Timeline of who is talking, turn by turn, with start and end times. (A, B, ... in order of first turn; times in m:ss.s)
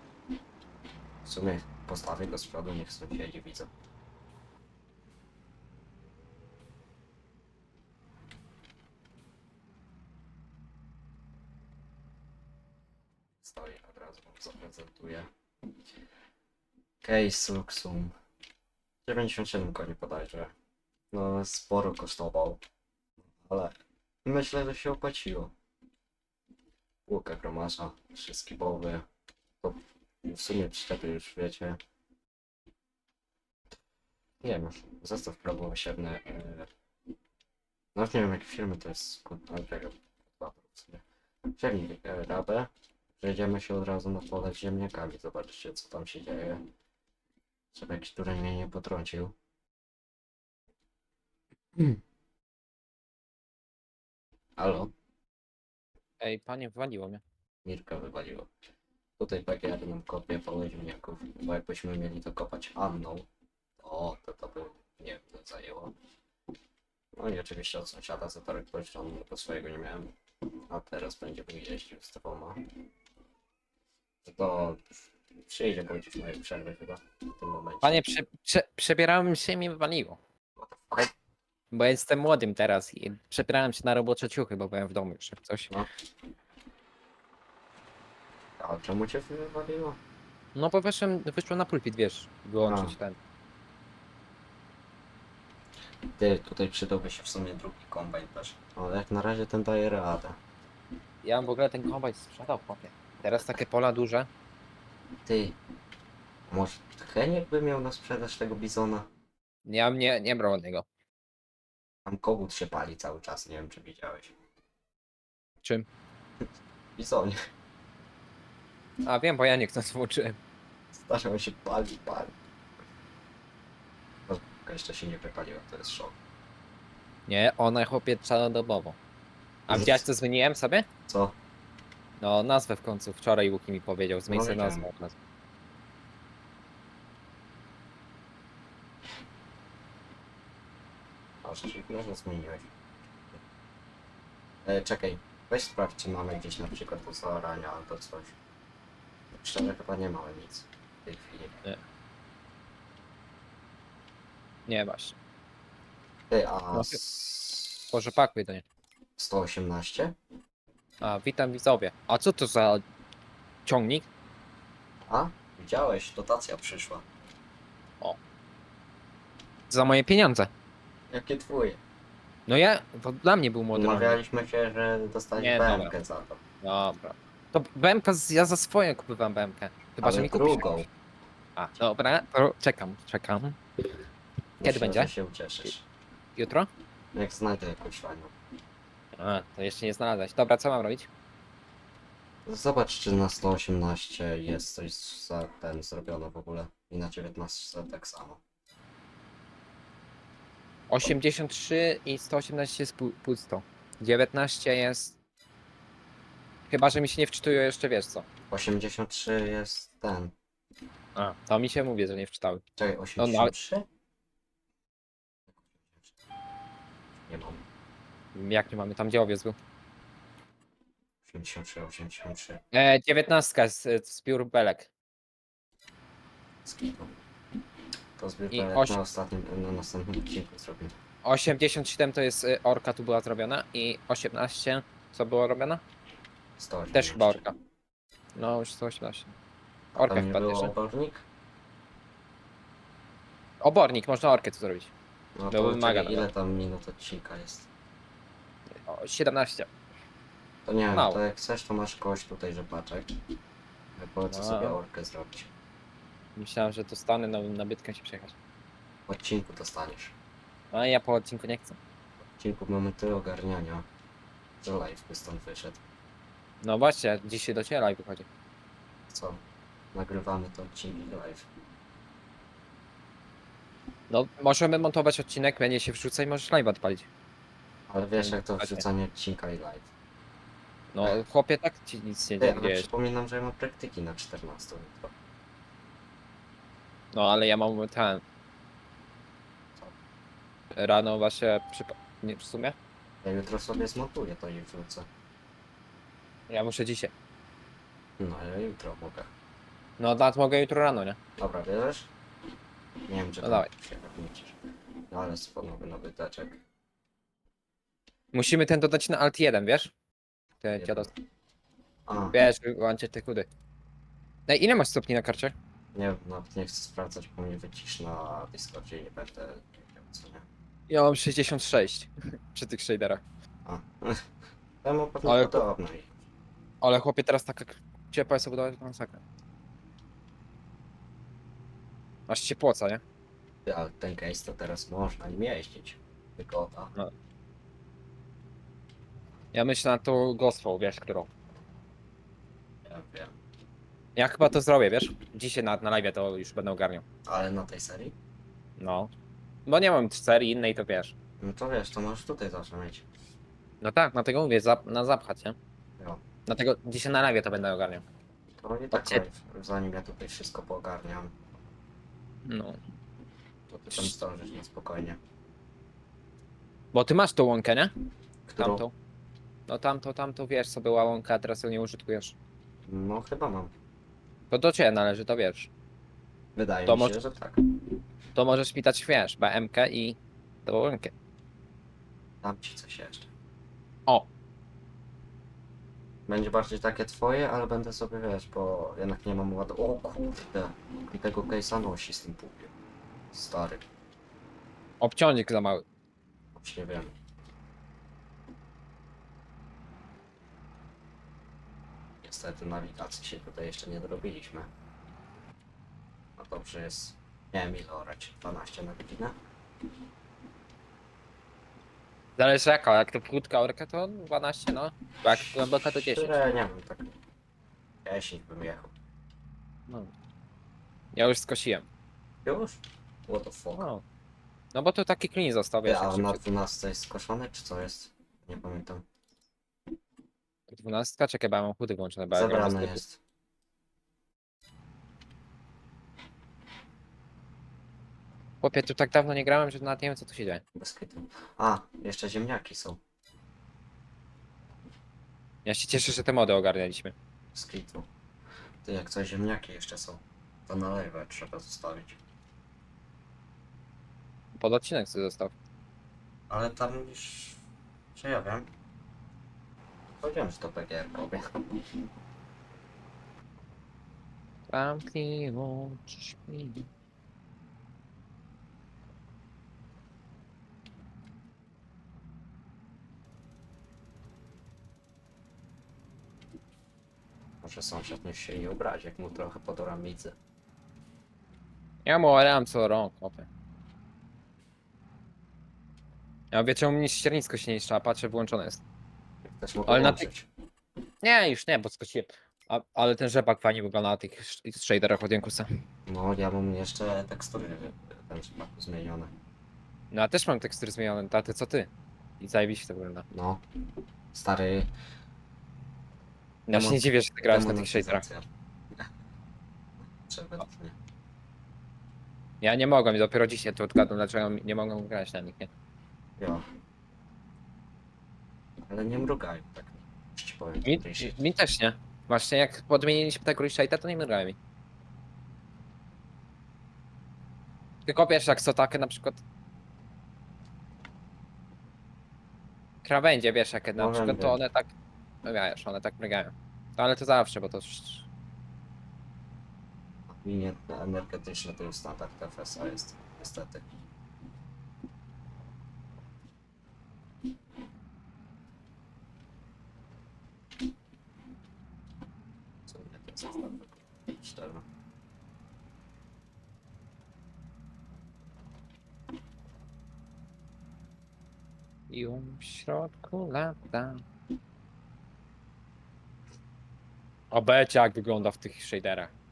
0:01.2-0:03.7 A
0:13.4-0:15.3 A
0:17.0-0:18.1 A
0:19.0-0:20.5 A
0:21.1-0:22.6 A
0:23.4-0:25.5 A
0:27.1-0:29.1 A
0:29.6-0:31.8 A
0:34.4-0:36.7 A
0:38.0-0:41.0 A
0:41.6-0:46.6 A
0:47.7-0:49.4 A
0:54.6-0:54.9 A
0:56.2-0:57.2 B
0:57.6-0:58.5 A
0:59.2-1:03.3 A
1:03.8-1:06.0 A
1:07.2-1:10.2 A
1:10.7-1:12.7 A
1:14.2-1:14.8 A
1:15.4-1:18.0 A
1:17.8-1:20.2 B
1:20.6-1:21.1 A
1:21.7-1:25.7 B
1:28.6-1:30.0 A
1:30.6-1:33.2 B
1:32.6-1:33.0 A
1:36.2-1:40.4 A
1:41.2-1:44.3 B
1:45.2-1:45.6 A
1:46.5-1:49.1 A
1:49.7-1:50.9 B
1:52.0-1:54.3 A
1:57.0-1:57.4 A
1:59.0-2:00.4 B
2:00.9-2:02.3 A
2:04.3-2:06.2 A
2:07.3-2:09.0 B
2:09.7-2:10.9 B
2:09.7-2:10.0 A
2:11.1-2:11.4 A
2:12.2-2:15.2 B
2:14.3-2:14.9 A
2:21.4-2:22.7 A
2:24.6-2:28.4 A
2:29.3-2:31.6 A
2:34.7-2:35.2 B
2:36.3-2:37.9 A
2:36.7-2:37.0 B
2:37.9-2:38.6 B
2:39.2-2:40.2 A
2:41.0-2:42.8 B
2:43.7-2:44.1 B
2:45.1-2:47.0 A
2:49.7-2:50.5 B
2:51.1-2:51.8 A
2:52.5-2:54.2 B
2:53.7-2:56.4 A
2:55.4-2:55.9 B
2:56.6-3:00.8 B
3:00.0-3:00.9 A
3:01.6-3:03.6 B
3:04.6-3:05.8 A
3:04.6-3:05.1 B
3:06.4-3:06.7 B
3:07.1-3:08.3 A
3:09.2-3:11.1 B
3:12.4-3:18.4 A
3:20.9-3:25.2 B
3:26.7-3:28.3 B
3:28.5-3:30.3 A
3:31.2-3:32.6 B
3:32.8-3:33.9 A
3:33.2-3:33.5 B
3:37.2-3:37.6 A
3:38.4-3:39.6 B
3:41.2-3:42.6 A
3:42.7-3:44.9 B
3:46.6-3:47.1 A
3:48.2-3:51.0 A
3:48.5-3:49.0 B
3:51.2-3:55.8 B
3:56.6-3:57.4 A
3:56.9-3:57.6 B
3:58.4-3:59.3 B
3:59.9-4:01.2 A
4:00.0-4:00.7 B
4:03.6-4:04.9 B
4:05.4-4:07.7 A
4:05.5-4:06.3 B
4:08.8-4:09.7 B
4:10.6-4:13.2 A
4:10.9-4:11.2 B
4:14.0-4:15.5 A
4:14.3-4:14.8 B
4:16.4-4:18.4 B
4:19.1-4:20.2 A
4:20.7-4:21.8 B
4:22.4-4:23.9 A
4:24.6-4:25.8 A
4:26.6-4:28.3 B
4:29.1-4:29.4 A
4:29.9-4:31.5 A
4:34.1-4:37.1 B
4:37.9-4:39.9 A
4:38.2-4:38.8 B
4:40.9-4:42.9 B
4:42.4-4:45.1 A
4:47.1-4:48.2 B
4:50.8-4:52.8 B
4:53.2-4:55.1 A
4:56.5-4:57.1 B
4:58.2-4:59.3 A
5:00.0-5:01.2 B
5:01.4-5:02.1 A
5:03.1-5:04.6 A
5:03.4-5:03.7 B
5:05.1-5:06.6 A
5:08.3-5:09.9 B
5:10.6-5:11.1 B
5:10.8-5:11.1 A
5:12.1-5:12.4 A
5:12.3-5:13.5 B
5:14.5-5:15.5 B
5:15.9-5:20.4 A
5:20.9-5:23.2 B
5:23.6-5:24.3 A
5:24.8-5:26.2 A
5:25.3-5:25.6 B
5:26.8-5:29.2 B
5:32.3-5:33.0 B
5:33.7-5:36.9 A
5:39.5-5:41.3 B
5:42.8-5:43.4 A
5:44.2-5:47.0 B
5:47.3-5:48.2 A
5:48.8-5:49.1 B
5:49.7-5:51.2 B
5:51.4-5:53.0 A
5:53.8-5:55.6 B
5:56.5-5:58.0 B
5:58.6-6:01.4 A
5:58.9-5:59.2 B
6:02.4-6:02.8 B
6:03.7-6:05.2 A
6:06.9-6:07.9 B
6:08.5-6:08.8 A
6:08.6-6:08.9 B
6:09.7-6:12.4 B
6:12.9-6:13.7 A
6:14.5-6:15.7 B
6:16.6-6:17.6 A
6:16.9-6:17.2 B
6:18.4-6:21.1 B
6:22.4-6:23.3 A
6:26.3-6:32.7 A
6:33.3-6:33.9 A
6:35.0-6:35.8 B
6:36.5-6:37.1 A
6:42.2-6:44.7 A
6:46.4-6:49.4 A
6:52.4-6:56.4 B
6:55.2-6:57.2 A
6:58.0-6:58.9 A
7:01.1-7:01.9 B
7:02.4-7:03.9 A
7:03.8-7:04.0 B
7:04.7-7:06.4 B
7:05.8-7:09.1 A
7:10.7-7:13.0 B
7:12.3-7:13.2 A
7:18.6-7:20.6 B
7:20.8-7:23.0 A
7:25.6-7:27.2 B
7:27.5-7:28.1 A
7:28.8-7:32.2 A
7:34.6-7:35.5 B
7:36.5-7:37.6 A
7:38.2-7:38.7 A
7:40.2-7:41.8 A
7:44.7-7:46.9 B
7:57.6-8:00.4 A
8:02.1-8:03.5 B
8:06.5-8:08.8 B
8:09.4-8:10.5 A
8:09.9-8:10.3 B
8:11.2-8:15.7 B
8:16.1-8:19.3 A
8:20.1-8:23.2 B
8:23.3-8:23.6 A
8:24.3-8:24.9 A
8:26.7-8:28.3 B
8:26.7-8:29.1 A
8:30.3-8:31.0 A
8:32.6-8:35.7 B
8:36.4-8:36.6 A
8:38.8-8:41.4 A
8:40.8-8:44.6 B
8:48.1-8:49.4 B
8:53.0-8:54.9 B
8:54.0-8:54.6 A
8:55.4-8:58.3 B
9:00.3-9:03.9 A
9:12.9-9:14.8 A
9:22.1-9:24.2 B
9:27.5-9:29.3 B